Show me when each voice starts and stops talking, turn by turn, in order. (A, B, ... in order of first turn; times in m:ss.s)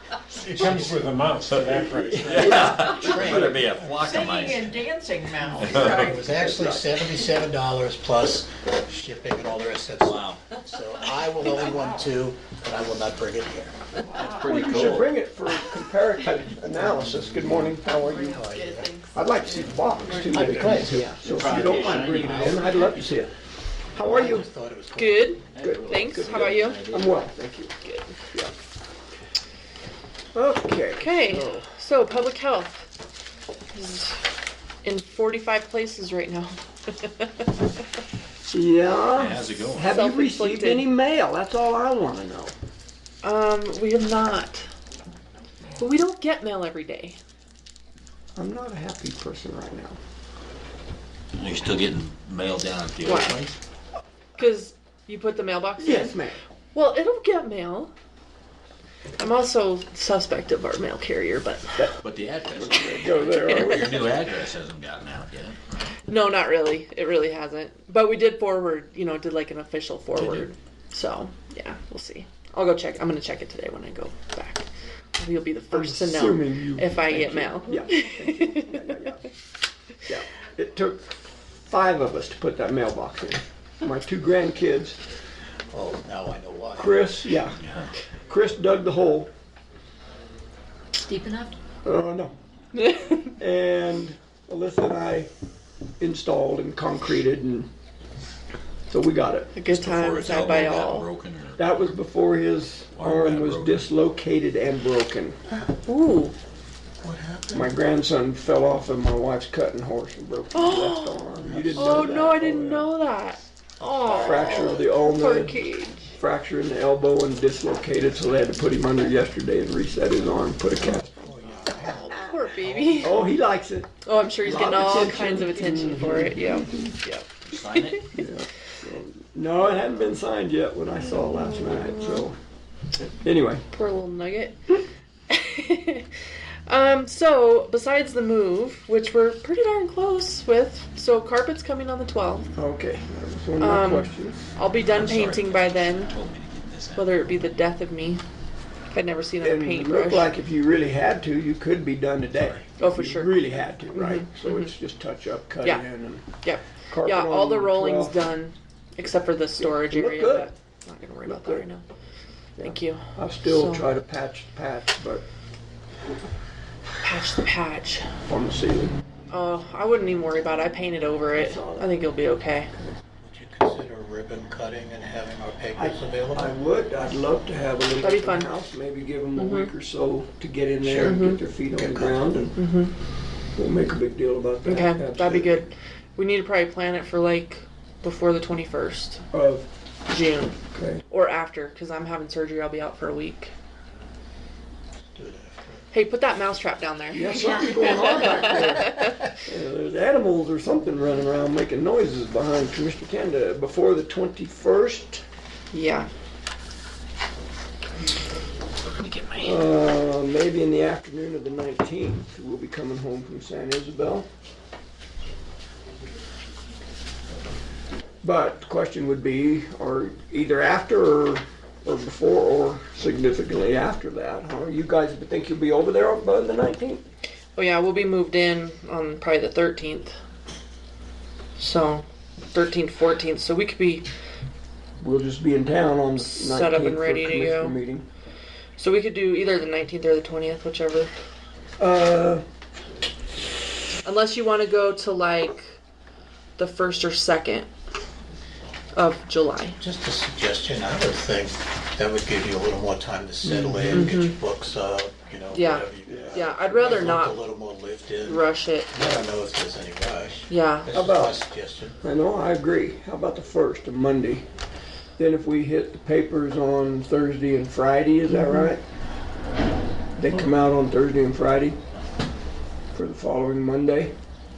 0:00.4-0:01.0 A
0:00.4-0:04.0 B
0:01.5-0:04.8 C
0:02.4-0:03.7 A
0:02.8-0:03.2 D
0:04.0-0:06.2 D
0:05.4-0:06.1 C
0:05.6-0:13.8 A
0:06.3-0:06.8 E
0:10.0-0:10.4 C
0:14.1-0:18.4 E
0:14.2-0:15.1 C
0:18.0-0:20.5 F
0:18.1-0:18.9 A
0:19.1-0:23.3 E
0:20.3-0:21.3 A
0:20.7-0:23.1 C
0:23.9-0:24.5 E
0:24.0-0:25.3 A
0:25.0-0:26.9 F
0:25.5-0:27.2 C
0:25.6-0:27.8 E
0:27.8-0:28.2 F
0:30.4-0:31.7 E
0:31.0-0:32.9 F
0:33.7-0:34.2 F
0:34.8-0:37.5 F
0:38.5-0:42.5 E
0:39.1-0:39.9 C
0:39.8-0:40.9 F
0:43.2-0:44.7 F
0:45.8-0:47.2 F
0:48.4-0:50.0 E
0:51.4-0:53.6 C
0:53.0-0:53.5 F
0:54.4-0:56.2 F
0:55.8-0:56.4 E
0:56.7-0:57.9 F
0:59.2-1:01.9 F
1:02.0-1:05.6 C
1:02.5-1:04.0 E
1:02.9-1:04.2 F
1:06.1-1:14.6 F
1:15.2-1:18.9 F
1:15.7-1:19.3 E
1:20.1-1:25.0 E
1:25.7-1:27.3 A
1:26.8-1:27.6 E
1:27.6-1:27.9 C
1:28.3-1:29.3 E
1:31.0-1:31.5 D
1:31.8-1:32.3 E
1:32.8-1:33.3 F
1:33.4-1:35.3 E
1:36.0-1:37.7 E
1:38.9-1:39.5 E
1:39.5-1:41.1 F
1:39.7-1:41.8 C
1:41.6-1:45.4 E
1:43.0-1:43.9 C
1:45.9-1:46.4 F
1:47.0-1:47.8 A
1:47.5-1:52.9 E
1:50.5-1:56.1 F
1:51.4-1:52.3 A
1:53.8-1:54.8 A
1:54.1-2:01.1 E
2:00.8-2:03.3 A
2:01.8-2:03.3 F
2:03.0-2:06.9 E
2:04.0-2:08.2 F
2:07.5-2:08.1 C
2:08.2-2:12.4 E
2:11.0-2:12.3 F
2:13.2-2:13.6 E
2:13.7-2:16.1 F
2:16.7-2:22.5 F
2:22.6-2:24.5 E
2:23.6-2:26.2 F
2:24.8-2:27.2 C
2:26.9-2:28.2 F
2:28.9-2:30.3 F
2:29.4-2:36.3 E
2:32.8-2:34.7 F
2:36.4-2:41.8 F
2:36.9-2:38.2 E
2:39.6-2:40.5 E
2:41.3-2:41.6 E
2:42.6-2:43.9 F
2:42.6-2:45.2 E
2:47.0-2:48.1 F
2:48.3-2:49.0 E
2:49.3-2:52.7 F
2:51.3-2:51.9 E
2:53.2-2:56.5 A
2:55.8-3:02.6 E
2:58.0-2:58.6 F
2:59.4-2:59.7 F
3:00.8-3:02.5 A
3:01.0-3:01.4 F
3:02.6-3:02.9 F
3:03.6-3:05.6 E
3:04.6-3:09.2 F
3:09.3-3:09.7 E
3:10.1-3:13.5 F
3:10.7-3:11.0 E
3:15.2-3:15.8 A
3:15.9-3:19.2 F
3:17.1-3:25.2 E
3:17.8-3:18.3 D
3:25.7-3:26.1 F
3:28.9-3:29.5 C
3:29.4-3:34.3 E
3:38.2-3:47.0 E
3:47.6-3:50.2 F
3:51.6-3:54.1 F
3:55.0-3:58.1 E
3:56.2-3:57.8 F
3:58.8-4:01.1 F
4:01.8-4:02.4 E
4:04.0-4:05.8 F
4:06.6-4:07.7 F
4:09.0-4:09.8 F
4:09.8-4:22.0 A
4:13.4-4:14.1 E
4:13.9-4:14.3 F
4:15.5-4:17.4 F
4:16.1-4:16.6 E
4:18.2-4:18.9 F
4:20.5-4:20.9 F
4:20.9-4:21.4 E
4:22.0-4:24.4 E
4:25.2-4:28.8 E
4:28.3-4:28.7 F
4:30.2-4:31.8 E
4:32.9-4:34.1 E